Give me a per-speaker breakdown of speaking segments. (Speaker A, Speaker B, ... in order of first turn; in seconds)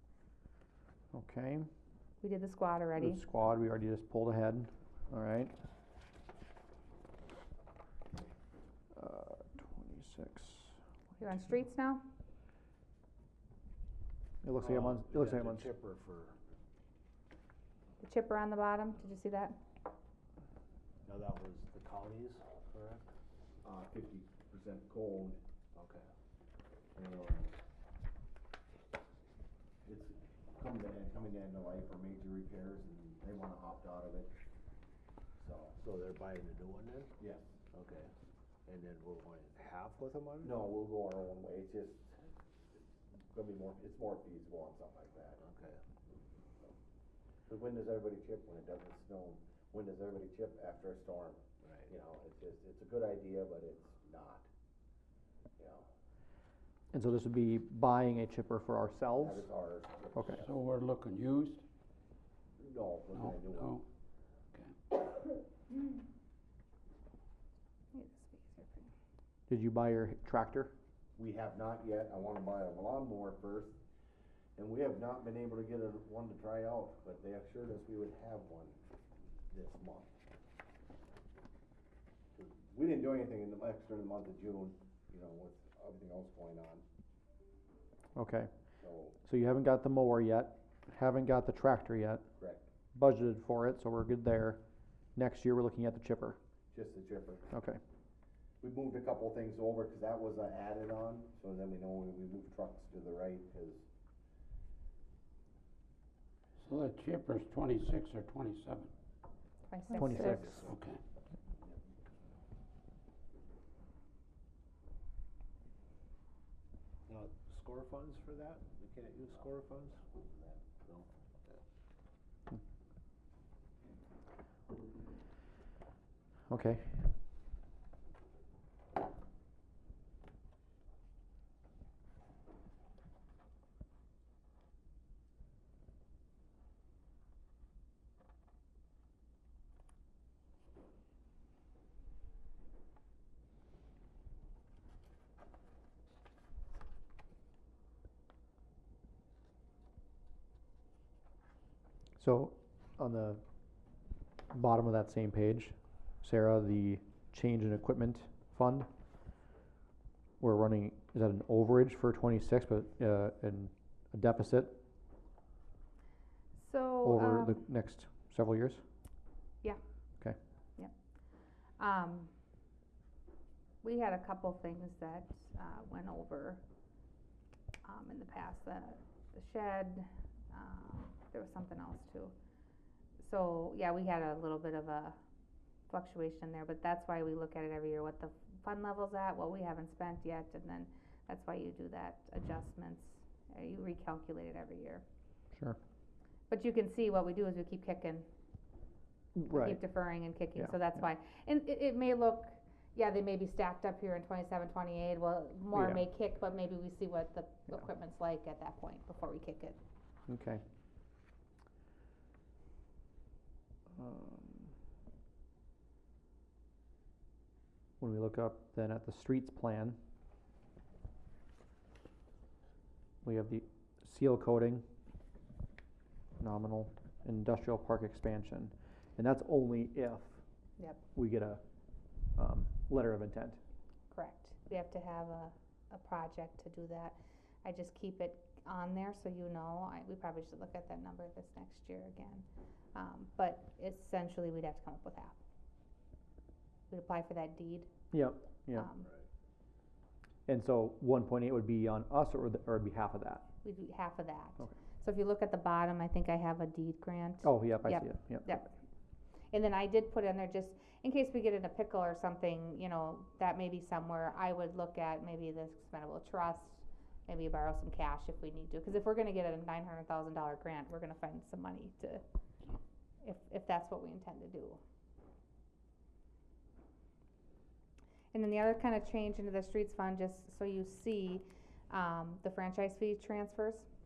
Speaker A: 1.1-1.7, 3.0-5.5, 8.9-10.8, 14.4-15.7, 56.9-59.5, 60.1-60.4, 69.5-70.7, 88.2-88.5, 89.2-92.2, 92.9-94.6, 95.2-96.4, 97.5-97.8, 109.9-110.7, 126.5-127.0, 152.2-153.4, 154.5-158.9, 160.4-164.8, 167.0-168.8, 199.3-199.8, 205.7-206.0, 210.3-210.6, 213.9-214.7, 218.0-220.0, 223.2-224.8, 226.4-230.4, 231.1-231.6, 232.3-233.6, 248.1-248.9, 250.5-253.5, 257.4-258.5
Speaker B: 2.2-3.2, 11.2-12.0, 18.0-19.6, 67.9-68.9, 109.7-110.4, 166.6-167.6, 171.8-172.3, 173.8-176.6, 177.8-182.3, 183.2-185.2, 185.9-195.0, 196.5-198.2, 199.5-209.8, 234.1-245.4, 246.9-247.9, 248.7-249.1, 253.6-258.7, 259.5-272.2, 273.2-274.8, 278.3-283.9
Speaker C: 14.6-16.4, 21.0-23.0, 25.7-26.1, 35.8-37.1, 37.7-38.1, 38.7-40.6, 45.4-45.8, 51.6-51.9, 110.0-110.8, 117.1-120.1, 120.7-121.6
Speaker D: 23.6-25.4, 26.9-27.5, 29.9-34.3, 35.4-35.8, 37.2-37.6, 40.4-42.1, 42.8-45.4, 47.5-54.5, 55.6-55.9, 59.2-60.5, 62.6-63.8, 71.2-73.8, 74.6-78.8, 79.5-80.1, 82.3-86.8, 88.8-89.1, 92.4-92.6, 96.7-97.5, 98.6-103.8
Speaker E: 60.4-61.6, 63.1-63.8, 106.6-108.9, 110.1-111.0